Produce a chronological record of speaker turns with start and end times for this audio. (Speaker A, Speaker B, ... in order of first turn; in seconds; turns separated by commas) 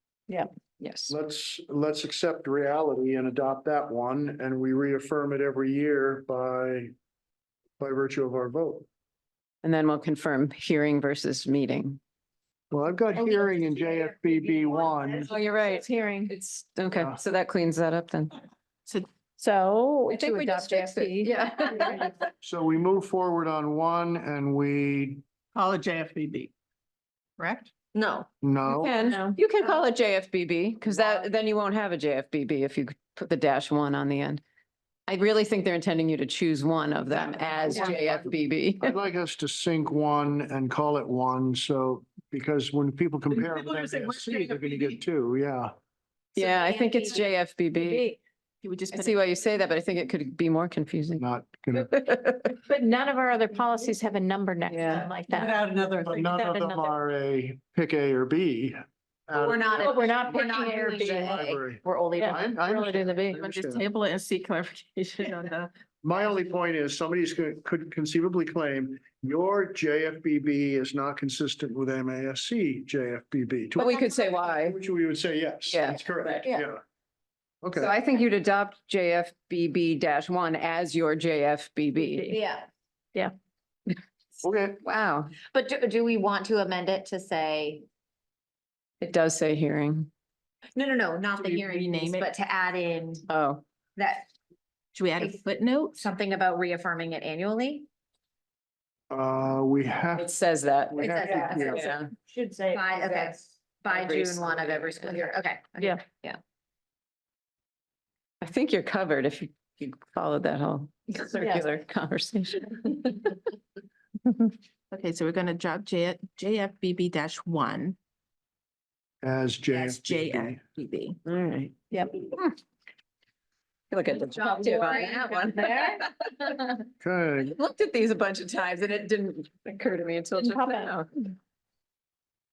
Speaker A: 0.3-1.2, Speaker B: 1.1-6.9, Speaker B: 7.8-8.9, Speaker A: 9.6-12.0, Speaker B: 12.7-15.3, Speaker C: 13.3-15.3, Speaker D: 15.3-16.3, Speaker A: 15.3-18.3, Speaker B: 16.9-17.2, Speaker D: 19.4-22.1, Speaker A: 20.1-22.1, Speaker B: 22.4-25.2, Speaker E: 25.6-26.5, Speaker E: 27.4-27.7, Speaker F: 27.9-28.2, Speaker B: 28.4-29.0, Speaker A: 28.8-34.4, Speaker D: 28.8-29.8, Speaker A: 35.1-39.0, Speaker B: 37.3-45.7, Speaker E: 43.4-45.0, Speaker A: 46.4-48.0, Speaker F: 46.4-47.2, Speaker D: 47.7-48.2, Speaker G: 48.6-49.3, Speaker A: 48.9-51.2, Speaker B: 51.2-51.9, Speaker A: 51.7-52.6, Speaker D: 52.7-56.9, Speaker A: 54.7-55.1, Speaker E: 54.9-56.4, Speaker B: 55.8-60.0, Speaker F: 59.4-62.5, Speaker D: 59.7-61.4, Speaker B: 61.0-63.8, Speaker D: 62.2-63.5, Speaker G: 63.3-65.7, Speaker B: 66.0-76.8, Speaker A: 73.8-74.8, Speaker A: 75.7-76.4, Speaker B: 77.6-77.9, Speaker A: 77.7-82.3, Speaker D: 82.1-82.4, Speaker F: 82.3-82.7, Speaker B: 84.4-84.8, Speaker A: 84.8-85.3, Speaker F: 85.5-87.8, Speaker A: 89.0-90.1, Speaker F: 90.8-93.3, Speaker G: 91.4-92.3, Speaker A: 93.3-93.6, Speaker F: 94.0-94.3, Speaker G: 95.0-96.0, Speaker F: 95.9-97.9, Speaker B: 99.1-100.3, Speaker A: 100.2-102.1, Speaker B: 100.9-101.9, Speaker F: 101.0-102.0, Speaker C: 102.2-103.5, Speaker F: 102.7-106.4, Speaker A: 103.9-105.2, Speaker A: 108.4-113.3, Speaker D: 111.3-111.7, Speaker G: 114.9-118.0, Speaker B: 119.2-120.6, Speaker G: 119.7-121.2, Speaker A: 121.2-122.5, Speaker D: 121.9-122.2, Speaker A: 123.9-126.8, Speaker D: 124.3-125.9, Speaker F: 124.7-125.1, Speaker B: 127.0-127.5, Speaker A: 127.5-131.1, Speaker D: 130.4-130.9